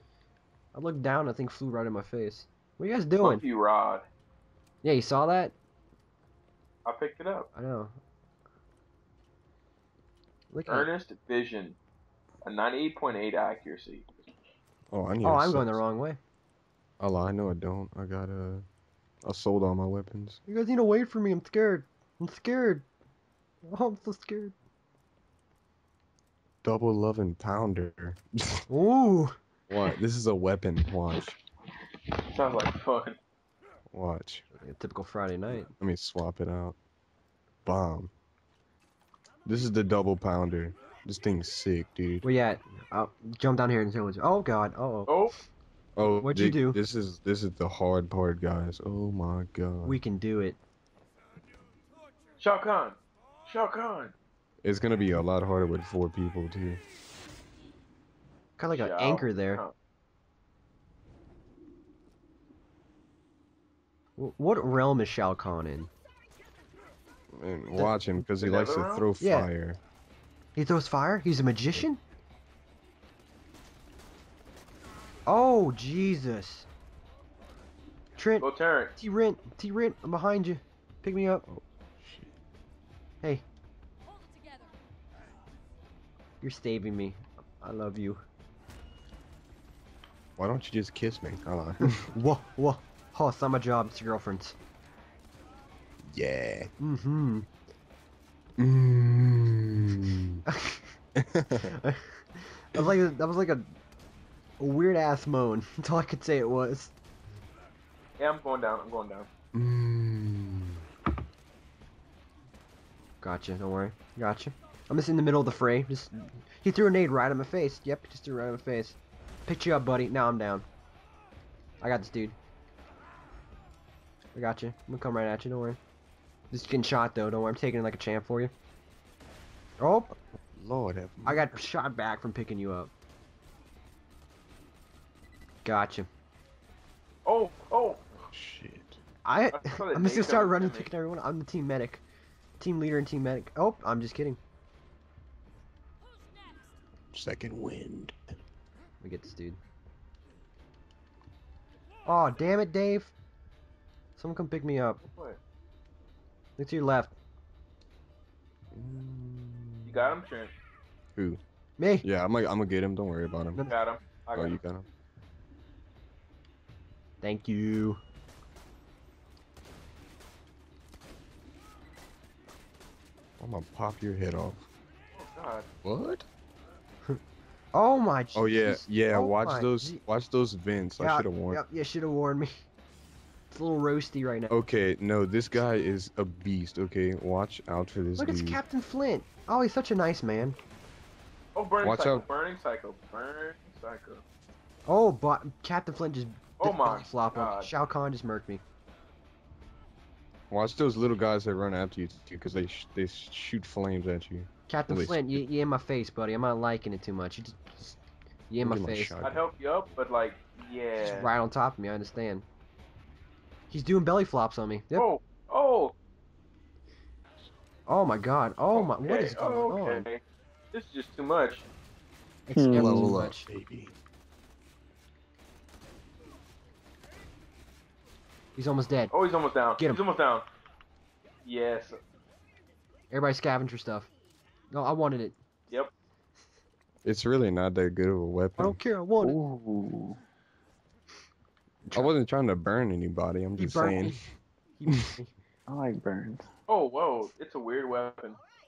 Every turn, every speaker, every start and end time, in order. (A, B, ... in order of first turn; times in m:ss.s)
0:00.7-0:03.4 A
0:03.2-0:04.0 B
0:04.8-0:05.5 A
0:06.9-0:07.5 B
0:07.6-0:07.9 A
0:10.5-0:10.9 A
0:10.7-0:11.8 B
0:12.4-0:14.1 B
0:14.9-0:15.8 C
0:15.2-0:16.2 A
0:17.0-0:18.6 C
0:19.2-0:20.4 C
0:20.5-0:22.9 A
0:23.7-0:24.5 A
0:26.6-0:28.6 C
0:28.7-0:29.4 A
0:29.7-0:31.4 C
0:32.3-0:33.2 B
0:33.9-0:34.4 C
0:34.5-0:35.7 A
0:35.7-0:36.8 C
0:37.7-0:38.1 C
0:39.5-0:42.3 C
0:42.2-0:45.1 A
0:45.1-0:45.4 B
0:46.0-0:50.0 C
0:46.2-0:46.8 A
0:49.8-0:50.6 A
0:52.4-0:54.1 B
0:54.6-0:56.8 C
0:58.6-0:59.6 A
0:58.7-0:59.7 B
1:04.2-1:05.9 A
1:07.3-1:09.8 C
1:08.4-1:09.1 B
1:09.2-1:09.5 A
1:10.6-1:12.0 A
1:15.3-1:16.7 A
1:18.2-1:21.4 A
1:18.4-1:19.0 B
1:21.5-1:22.3 C
1:26.4-1:28.2 A
1:30.4-1:32.1 C
1:31.8-1:34.6 A
1:36.0-1:36.7 C
1:36.8-1:37.5 A
1:38.6-1:40.4 C
1:40.5-1:40.9 A
1:41.2-1:41.8 C
1:41.6-1:43.7 A
1:44.6-1:46.9 A
1:48.2-1:49.3 B
1:49.5-1:50.8 C
1:53.2-2:00.7 A
2:01.8-2:02.4 A
2:04.4-2:05.8 A
2:06.5-2:08.5 A
2:09.8-2:10.2 A
2:10.6-2:11.6 C
2:11.2-2:12.9 A
2:15.6-2:16.1 A
2:17.3-2:18.1 B
2:18.3-2:19.0 C
2:19.2-2:22.0 A
2:19.5-2:20.9 B
2:22.6-2:24.4 A
2:27.1-2:28.4 C
2:29.0-2:29.6 A
2:32.0-2:33.1 A
2:34.2-2:35.0 A
2:35.0-2:35.4 B
2:36.6-2:37.1 A
2:38.7-2:40.1 C
2:39.8-2:40.5 B
2:41.2-2:41.4 C
2:41.8-2:42.1 A
2:42.0-2:43.6 C
2:43.6-2:44.6 B
2:44.4-2:44.9 C
2:47.2-2:48.0 A
2:53.4-2:54.7 C
2:55.1-2:55.7 B
2:55.8-2:56.3 C
2:57.7-3:00.0 A
2:58.4-3:01.6 C
3:01.0-3:02.5 A
3:03.5-3:04.5 A
3:04.5-3:08.6 C
3:08.2-3:10.6 A
3:11.6-3:14.2 B
3:11.8-3:12.2 C
3:14.9-3:18.6 A
3:16.6-3:17.7 B
3:20.5-3:25.4 C
3:24.7-3:28.0 A
3:28.5-3:29.2 A
3:28.6-3:29.4 C
3:29.2-3:31.3 B
3:31.0-3:32.5 A
3:33.7-3:35.1 A
3:34.9-3:36.0 B
3:37.9-3:40.0 A
3:38.7-3:40.2 B
3:40.7-3:41.6 B
3:42.5-3:43.5 A
3:42.5-3:43.1 D
3:42.7-3:44.0 C
3:48.6-3:49.1 A
3:49.1-3:50.5 B
3:49.8-3:50.0 A
3:51.4-3:52.0 B
3:53.1-3:54.1 A
3:54.7-3:55.4 A
3:57.0-3:58.8 C
3:58.6-3:59.4 A
3:59.2-4:00.2 D
4:01.9-4:04.2 C
4:03.6-4:04.2 A
4:04.8-4:05.3 A
4:05.7-4:06.4 D
4:06.7-4:08.4 B